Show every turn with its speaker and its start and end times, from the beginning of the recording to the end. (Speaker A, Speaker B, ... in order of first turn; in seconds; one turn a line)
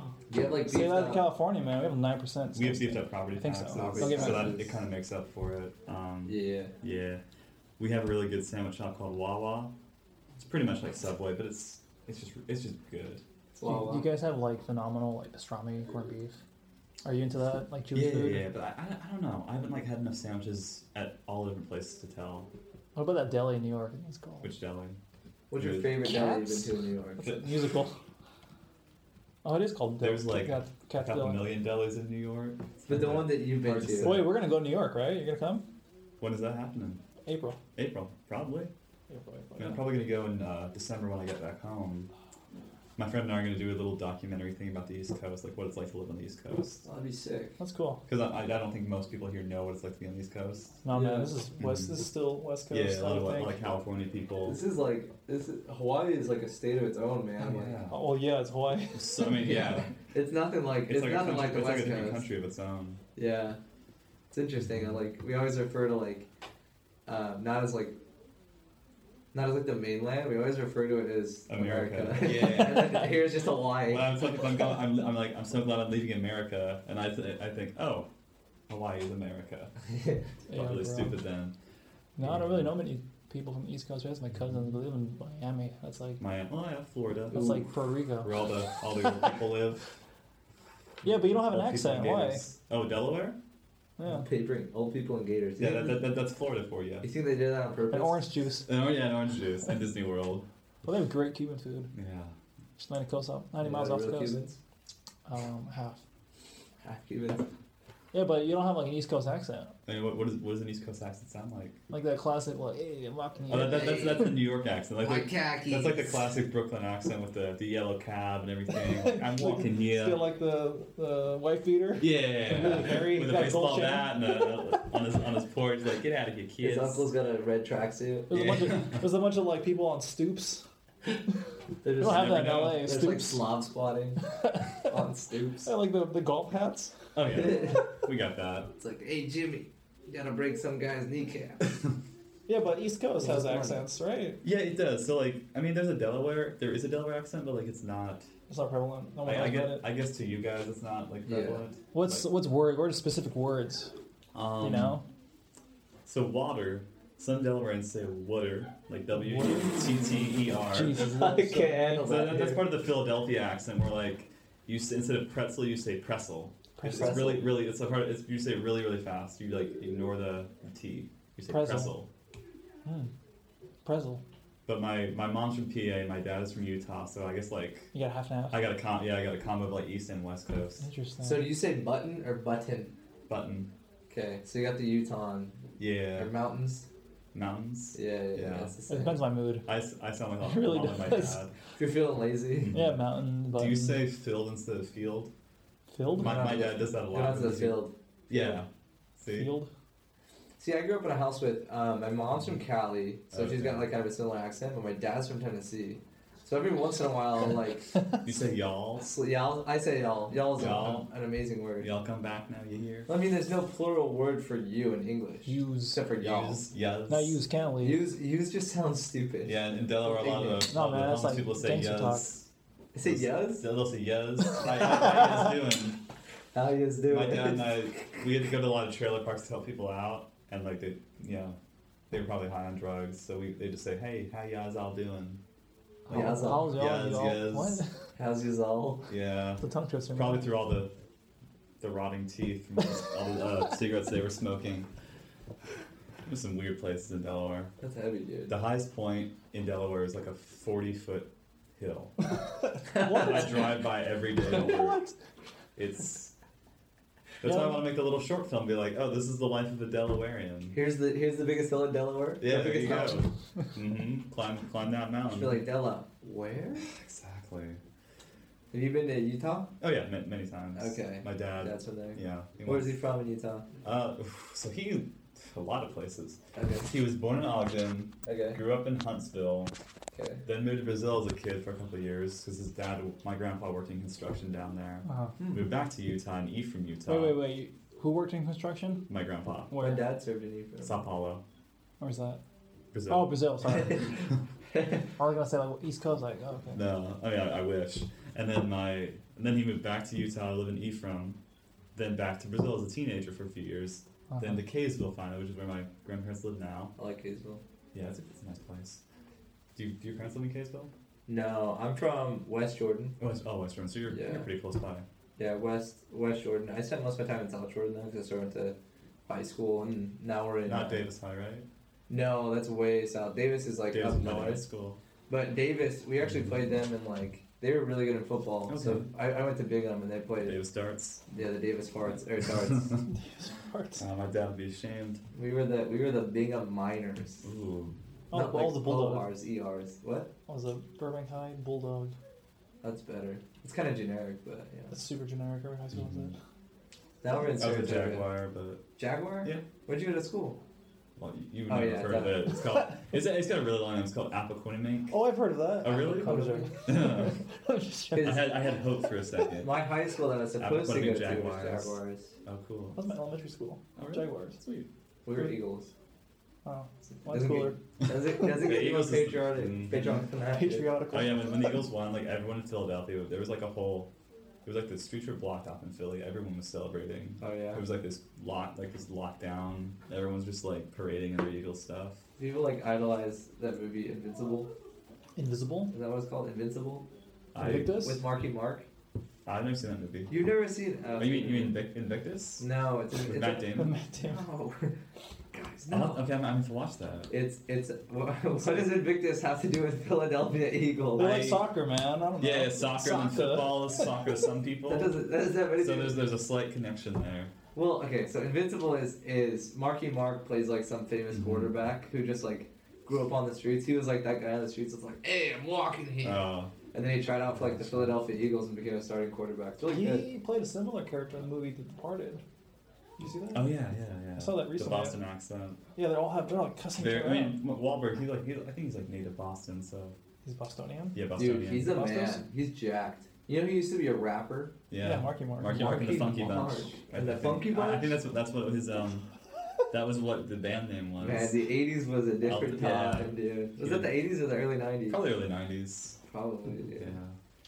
Speaker A: 0.3-1.3
Speaker B: 0.7-4.6
Speaker C: 2.5-7.2
Speaker A: 3.7-4.8
Speaker A: 6.3-6.7
Speaker C: 7.8-9.7
Speaker C: 10.4-13.2
Speaker A: 13.5-14.1
Speaker B: 13.6-16.4
Speaker B: 17.0-18.5
Speaker C: 17.9-22.5
Speaker B: 22.9-24.5
Speaker C: 24.4-25.0
Speaker A: 25.5-27.5
Speaker C: 25.6-26.1
Speaker B: 26.0-28.0
Speaker B: 29.4-31.5
Speaker C: 30.0-34.3
Speaker A: 32.9-34.2
Speaker B: 34.0-35.6
Speaker C: 36.2-37.0
Speaker B: 37.2-37.6
Speaker C: 37.8-38.7
Speaker B: 39.1-39.9
Speaker C: 39.6-42.1
Speaker C: 43.0-46.8
Speaker A: 46.8-47.6
Speaker B: 47.6-48.0
Speaker C: 48.1-50.8
Speaker B: 50.8-53.6
Speaker A: 50.9-51.3
Speaker C: 51.6-52.0
Speaker C: 52.7-54.6
Speaker A: 54.5-57.8
Speaker C: 57.4-58.1
Speaker B: 57.9-59.9
Speaker C: 58.9-59.9
Speaker A: 60.1-62.2
Speaker C: 60.9-63.0
Speaker A: 63.2-63.6
Speaker A: 64.3-66.3
Speaker A: 67.1-68.0
Speaker A: 69.3-74.2
Speaker C: 71.5-73.1
Speaker C: 73.9-78.1
Speaker C: 78.7-79.7
Speaker A: 79.9-80.2
Speaker B: 80.5-81.2
Speaker C: 80.5-81.5
Speaker B: 82.2-86.2
Speaker C: 82.2-82.7
Speaker C: 86.2-87.6
Speaker B: 87.3-88.3
Speaker C: 88.2-89.9
Speaker B: 91.0-92.4
Speaker C: 91.3-93.4
Speaker B: 94.0-94.3
Speaker A: 94.0-96.1
Speaker C: 95.6-97.1
Speaker A: 97.0-98.2
Speaker B: 97.9-98.7
Speaker C: 98.7-100.5
Speaker B: 100.8-101.9
Speaker C: 101.9-102.3
Speaker B: 102.8-104.4
Speaker A: 103.6-104.6
Speaker B: 105.3-106.0
Speaker A: 106.8-107.5
Speaker B: 108.1-109.7
Speaker C: 109.9-111.8
Speaker B: 111.9-114.1
Speaker C: 113.5-120.3
Speaker A: 113.5-114.3
Speaker A: 115.0-116.3
Speaker B: 118.8-124.5
Speaker C: 122.0-127.0
Speaker A: 126.6-128.3
Speaker B: 128.3-130.7
Speaker C: 128.3-129.0
Speaker A: 131.8-135.7
Speaker B: 132.0-133.5
Speaker C: 132.0-133.0
Speaker B: 134.3-134.9
Speaker B: 135.7-136.9
Speaker C: 137.2-138.7
Speaker A: 137.3-137.9
Speaker A: 138.8-141.8
Speaker B: 142.5-144.4
Speaker A: 143.2-143.9
Speaker C: 144.4-148.3
Speaker B: 148.5-149.9
Speaker C: 149.2-152.3
Speaker A: 151.3-151.7
Speaker B: 151.9-153.9
Speaker C: 154.3-155.0
Speaker B: 154.6-155.0
Speaker C: 156.1-161.1
Speaker B: 159.2-159.8
Speaker B: 160.7-162.1
Speaker A: 160.9-162.7
Speaker C: 162.0-172.1
Speaker B: 166.8-167.3
Speaker A: 166.8-167.5
Speaker B: 171.5-171.9
Speaker B: 172.8-173.1
Speaker B: 173.8-174.2
Speaker C: 174.7-177.9
Speaker B: 177.9-178.6
Speaker C: 178.5-180.9
Speaker B: 180.8-181.5
Speaker A: 181.2-182.9
Speaker C: 183.3-183.7
Speaker A: 184.1-185.6
Speaker C: 185.8-186.3
Speaker A: 186.2-186.9
Speaker C: 187.3-188.8
Speaker A: 187.9-189.2
Speaker B: 188.9-189.7
Speaker C: 189.6-191.5
Speaker B: 190.4-191.4
Speaker A: 191.8-192.8
Speaker C: 192.7-193.0
Speaker B: 192.7-194.0
Speaker C: 193.5-195.3
Speaker B: 195.9-196.4
Speaker A: 196.2-198.6
Speaker C: 196.2-199.5
Speaker B: 199.4-199.7
Speaker A: 200.6-207.9
Speaker C: 203.3-203.9
Speaker C: 208.2-209.1
Speaker A: 209.0-211.9
Speaker C: 210.5-211.1
Speaker C: 211.8-213.1
Speaker A: 213.1-216.6
Speaker B: 215.5-216.0
Speaker C: 216.2-217.4
Speaker B: 217.1-218.0
Speaker A: 217.8-220.6
Speaker C: 219.4-222.5
Speaker B: 220.7-222.3
Speaker A: 222.9-223.6
Speaker C: 223.1-226.0
Speaker A: 226.5-228.0
Speaker C: 227.1-231.6
Speaker C: 232.1-235.4
Speaker C: 236.1-237.8
Speaker B: 236.1-238.1
Speaker A: 236.1-236.8
Speaker A: 238.2-239.1
Speaker C: 239.1-240.9
Speaker B: 239.6-240.5
Speaker C: 241.8-244.9
Speaker C: 246.2-247.7
Speaker A: 247.8-248.6
Speaker C: 248.5-252.2
Speaker A: 252.9-253.5
Speaker C: 252.9-255.0
Speaker B: 252.9-253.4
Speaker B: 254.5-255.2
Speaker C: 255.8-256.3
Speaker C: 257.4-260.8
Speaker B: 257.4-257.7
Speaker A: 260.7-263.3
Speaker C: 262.4-265.6
Speaker A: 265.3-266.9
Speaker C: 266.8-267.8
Speaker A: 268.7-269.7
Speaker C: 269.8-272.9
Speaker A: 270.8-273.7
Speaker C: 273.8-279.7
Speaker A: 276.6-276.9
Speaker A: 278.3-278.6
Speaker A: 280.1-280.4
Speaker C: 280.4-287.4
Speaker B: 285.1-285.4
Speaker B: 287.1-289.1
Speaker C: 289.1-289.8
Speaker B: 289.7-290.0
Speaker A: 289.8-291.1
Speaker C: 290.8-291.4
Speaker B: 292.0-292.4
Speaker C: 292.9-293.5
Speaker B: 293.1-294.2
Speaker A: 293.7-294.2
Speaker A: 294.7-295.1
Speaker B: 295.2-296.8
Speaker C: 296.7-301.4
Speaker C: 301.9-306.9
Speaker B: 304.3-304.6
Speaker A: 307.0-307.6
Speaker C: 307.9-309.0
Speaker C: 309.8-310.9
Speaker A: 311.3-313.2
Speaker C: 313.2-315.1
Speaker A: 314.1-314.5
Speaker A: 315.4-318.8
Speaker A: 319.3-321.0
Speaker C: 320.7-321.7
Speaker A: 322.1-324.6
Speaker C: 323.9-325.0
Speaker A: 325.3-330.6
Speaker C: 328.7-329.1
Speaker C: 330.4-331.2
Speaker A: 331.3-333.1
Speaker C: 332.7-333.1
Speaker B: 333.1-334.0
Speaker C: 334.0-335.2
Speaker A: 335.3-337.4
Speaker C: 337.4-337.9
Speaker B: 338.3-339.3
Speaker A: 338.3-340.3
Speaker B: 340.5-342.1
Speaker A: 342.8-344.9
Speaker B: 344.9-346.4
Speaker C: 346.0-346.3
Speaker A: 347.2-348.4
Speaker C: 347.6-348.8
Speaker A: 349.0-350.6
Speaker C: 351.2-355.2
Speaker A: 351.7-352.5
Speaker B: 355.1-358.4
Speaker C: 355.8-357.4
Speaker A: 355.9-357.1
Speaker A: 358.1-358.5
Speaker C: 358.2-359.8
Speaker A: 359.6-362.4
Speaker C: 360.6-363.0
Speaker B: 362.9-364.6
Speaker C: 364.0-364.9
Speaker A: 365.2-365.9
Speaker B: 366.6-367.8
Speaker A: 367.1-371.0
Speaker C: 368.0-370.3
Speaker B: 370.5-371.7
Speaker C: 371.1-374.1
Speaker C: 374.6-382.2
Speaker A: 377.4-377.8
Speaker A: 382.4-384.7
Speaker B: 385.4-385.9
Speaker A: 385.9-387.1
Speaker C: 387.5-388.1
Speaker B: 387.6-388.2
Speaker A: 387.7-388.9
Speaker C: 389.4-390.4
Speaker A: 390.3-391.8
Speaker C: 391.2-392.6
Speaker A: 392.6-393.6
Speaker C: 393.2-393.9
Speaker B: 393.8-394.4
Speaker A: 394.2-394.9
Speaker A: 395.5-396.2
Speaker C: 395.9-397.3
Speaker A: 397.3-401.6
Speaker B: 401.1-404.2
Speaker C: 402.4-405.2
Speaker A: 404.9-406.3
Speaker C: 405.8-407.5
Speaker A: 407.8-420.3
Speaker C: 411.4-411.7
Speaker C: 416.2-416.7
Speaker C: 417.6-418.2
Speaker B: 419.8-422.4
Speaker B: 423.2-423.7
Speaker C: 423.5-425.8
Speaker B: 424.4-425.2
Speaker B: 426.0-427.6
Speaker C: 427.0-430.2
Speaker B: 430.4-431.2
Speaker C: 431.1-432.0
Speaker A: 431.4-434.8
Speaker B: 431.9-432.4
Speaker C: 434.9-439.3
Speaker B: 435.0-436.3
Speaker A: 435.7-438.2
Speaker C: 439.9-441.6
Speaker A: 441.2-445.2
Speaker C: 442.4-444.1
Speaker C: 445.1-446.2
Speaker A: 446.2-447.1
Speaker C: 446.9-447.4